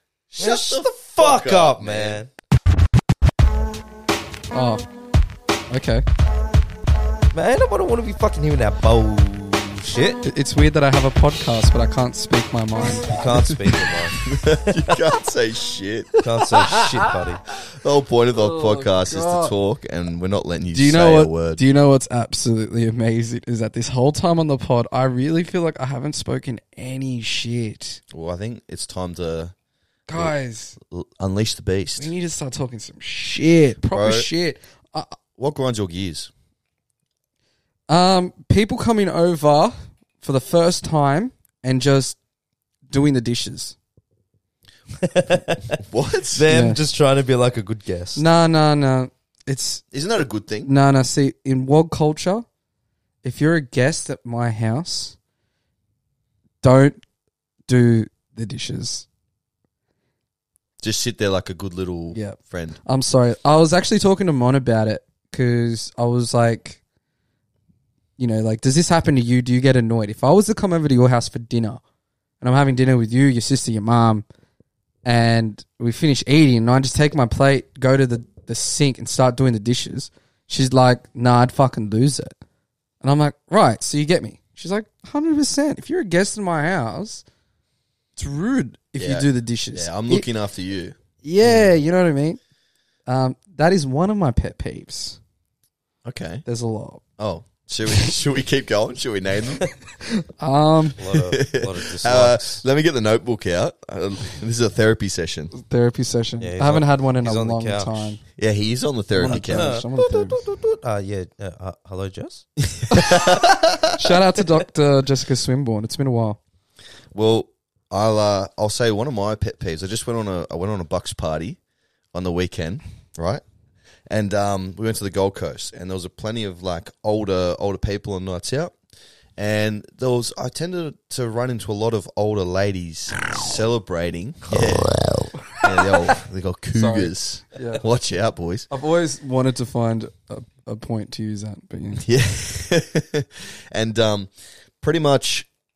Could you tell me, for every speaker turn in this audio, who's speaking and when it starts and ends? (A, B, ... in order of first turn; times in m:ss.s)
0:00.3-0:02.2 A
0:00.4-0:02.3 B
0:04.5-0:04.8 C
0:05.7-0:06.0 C
0:07.3-0:10.2 B
0:10.2-0:13.9 C
0:13.1-0:15.0 B
0:14.2-0:16.1 A
0:16.2-0:17.1 C
0:16.2-0:17.4 B
0:17.8-0:21.6 A
0:18.3-0:19.5 C
0:20.7-0:28.0 C
0:28.1-0:29.5 A
0:30.1-0:30.8 C
0:30.1-0:32.1 A
0:32.0-0:35.2 C
0:33.9-0:34.3 A
0:35.4-0:36.3 A
0:37.9-0:42.2 C
0:42.9-0:43.8 C
0:45.0-0:45.8 B
0:45.8-0:46.4 A
0:46.3-0:48.2 B
0:46.5-0:46.8 C
0:48.2-0:49.8 C
0:49.9-0:50.7 A
0:50.6-0:52.4 C
0:53.2-0:55.2 C
0:56.6-0:57.0 C
0:57.7-0:59.1 C
1:00.8-1:02.8 A
1:02.1-1:06.8 C
1:08.2-1:11.8 C
1:12.4-1:14.2 C
1:15.0-1:22.3 C
1:23.0-1:27.2 C
1:28.2-1:30.3 C
1:29.0-1:31.0 A
1:31.2-1:32.4 C
1:33.1-1:35.2 C
1:36.0-1:36.4 A
1:36.4-1:37.0 C
1:37.2-1:39.6 A
1:40.0-1:41.0 C
1:41.0-1:42.6 B
1:41.1-1:45.5 A
1:45.5-1:48.2 C
1:46.4-1:48.2 B
1:48.4-1:49.8 A
1:49.1-1:50.4 C
1:49.2-1:49.9 B
1:50.5-1:52.4 B
1:52.8-1:54.2 A
1:52.9-1:53.3 C
1:53.9-1:56.4 C
1:57.1-2:01.6 A
2:02.1-2:03.4 A
2:04.1-2:08.7 A
2:09.4-2:15.0 A
2:15.0-2:16.1 C
2:15.6-2:18.7 A
2:16.7-2:17.8 C
2:18.7-2:22.0 C
2:22.0-2:25.5 A